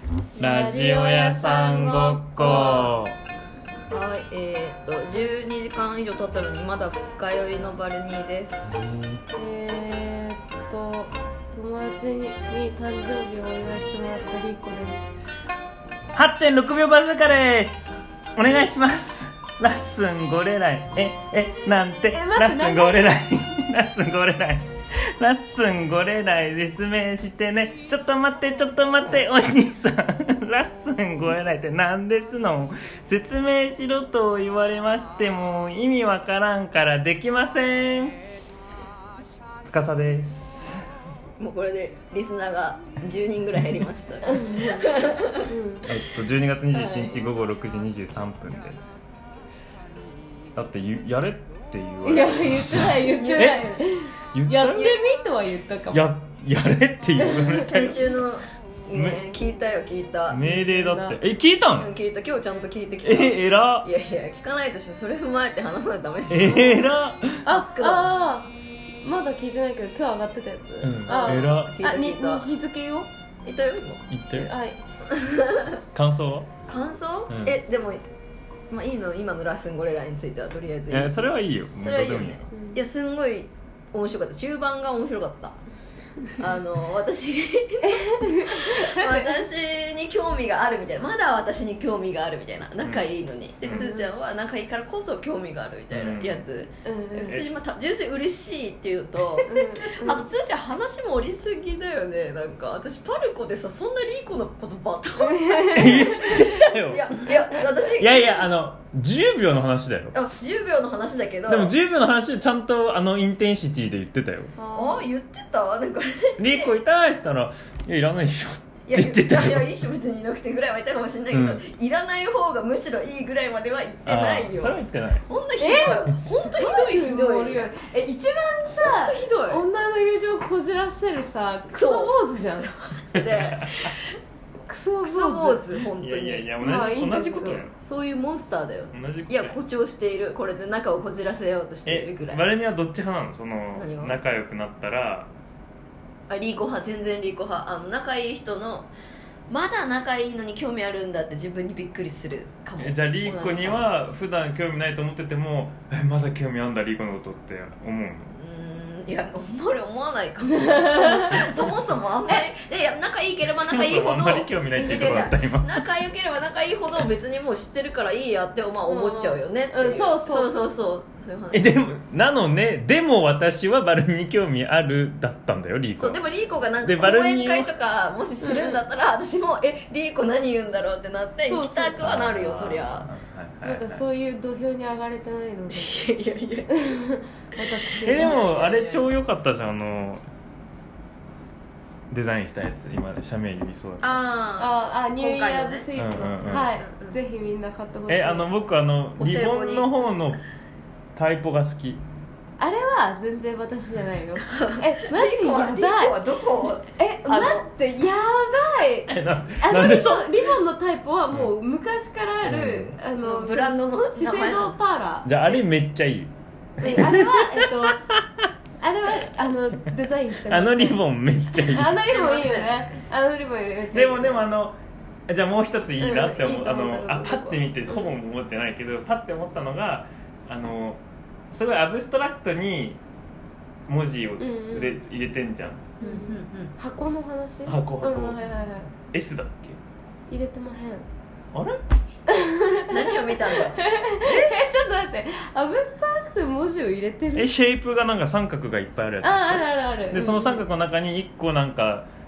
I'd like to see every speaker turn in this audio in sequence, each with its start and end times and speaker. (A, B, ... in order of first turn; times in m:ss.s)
0:00.4-0:03.2 A
0:00.4-0:02.9 B
0:03.9-0:08.6 B
0:08.6-0:09.2 A
0:09.3-0:15.1 C
0:16.1-0:38.2 A
0:22.1-0:23.2 C
0:39.6-0:40.8 A
0:41.4-0:45.5 B
0:44.3-0:44.9 C
0:45.5-0:45.9 C
0:45.8-0:49.0 A
0:46.7-0:47.3 B
0:50.5-0:53.6 A
0:52.0-0:56.0 C
0:52.6-0:54.0 B
0:54.3-0:55.0 A
0:55.9-0:58.2 A
0:57.2-0:57.6 C
0:57.6-1:00.4 B
0:58.9-0:59.2 A
1:00.3-1:01.9 A
1:00.3-1:01.2 C
1:01.8-1:08.1 B
1:03.0-1:03.9 A
1:06.3-1:07.4 A
1:07.4-1:08.5 C
1:09.0-1:13.1 C
1:10.8-1:11.7 A
1:11.1-1:12.5 B
1:13.4-1:14.1 B
1:14.1-1:14.5 A
1:14.3-1:14.8 C
1:15.1-1:15.8 B
1:15.9-1:16.5 A
1:16.7-1:18.0 B
1:17.3-1:17.6 A
1:18.7-1:25.6 B
1:20.9-1:22.4 A
1:22.5-1:22.8 C
1:26.3-1:48.4 B
1:27.8-1:29.3 C
1:33.6-1:33.9 A
1:33.7-1:34.1 C
1:35.9-1:36.4 A
1:36.8-1:37.4 C
1:39.4-1:40.2 C
1:45.2-1:46.5 C
1:45.7-1:50.1 A
1:50.1-1:51.7 B
1:51.5-1:54.5 A
1:54.6-1:55.0 C
1:54.7-1:56.7 B
1:56.4-1:59.8 A
1:58.9-2:07.7 B
2:01.3-2:01.6 A
2:04.0-2:05.2 A
2:05.6-2:12.7 C
2:08.7-2:09.6 B
2:11.7-2:12.2 B
2:12.9-2:14.1 B
2:13.1-2:13.9 A
2:14.7-2:15.7 C
2:15.0-2:16.5 B
2:15.9-2:17.7 A
2:16.6-2:17.7 C
2:17.8-2:22.4 B
2:18.9-2:19.6 A
2:21.8-2:25.3 A
2:23.7-2:24.2 B
2:26.3-2:28.9 B
2:29.5-2:33.8 B
2:32.8-2:38.3 A
2:38.3-2:51.7 B
2:40.7-2:41.5 C
2:43.5-2:45.8 A
2:48.8-2:50.6 C
2:51.5-2:56.2 A
2:56.0-3:03.1 B
2:56.8-2:57.7 A
2:58.4-2:58.8 C
3:01.5-3:02.2 C
3:02.0-3:04.0 A
3:03.6-3:06.1 C
3:05.7-3:06.8 B
3:06.7-3:08.4 C
3:08.0-3:10.2 A
3:08.0-3:09.0 B
3:12.1-3:14.1 A
3:14.0-3:15.9 B
3:14.6-3:18.5 C
3:16.0-3:16.7 A
3:16.4-3:17.2 B
3:18.1-3:20.4 A
3:19.2-3:19.9 B
3:21.1-3:22.0 A
3:22.6-3:26.2 C
3:24.5-3:27.6 B
3:27.0-3:35.6 C
3:29.1-3:30.5 A
3:32.4-3:32.9 A
3:33.2-3:34.7 B
3:35.2-3:38.5 A
3:36.8-3:38.0 C
3:38.8-3:41.0 C
3:40.4-3:42.2 A
3:41.5-3:44.4 C
3:42.0-3:42.8 B
3:43.9-3:44.7 A
3:45.3-3:53.0 A
3:46.0-3:48.0 C
3:53.9-3:55.9 A
3:54.4-3:55.0 C
3:56.0-3:56.7 B
3:56.0-3:58.9 C
3:57.6-3:58.4 A
3:59.0-3:59.8 A
4:00.3-4:01.0 C
4:01.5-4:01.8 A
4:02.3-4:07.5 C
4:02.8-4:03.8 B
4:04.3-4:04.6 A
4:07.3-4:12.1 A
4:09.2-4:10.6 C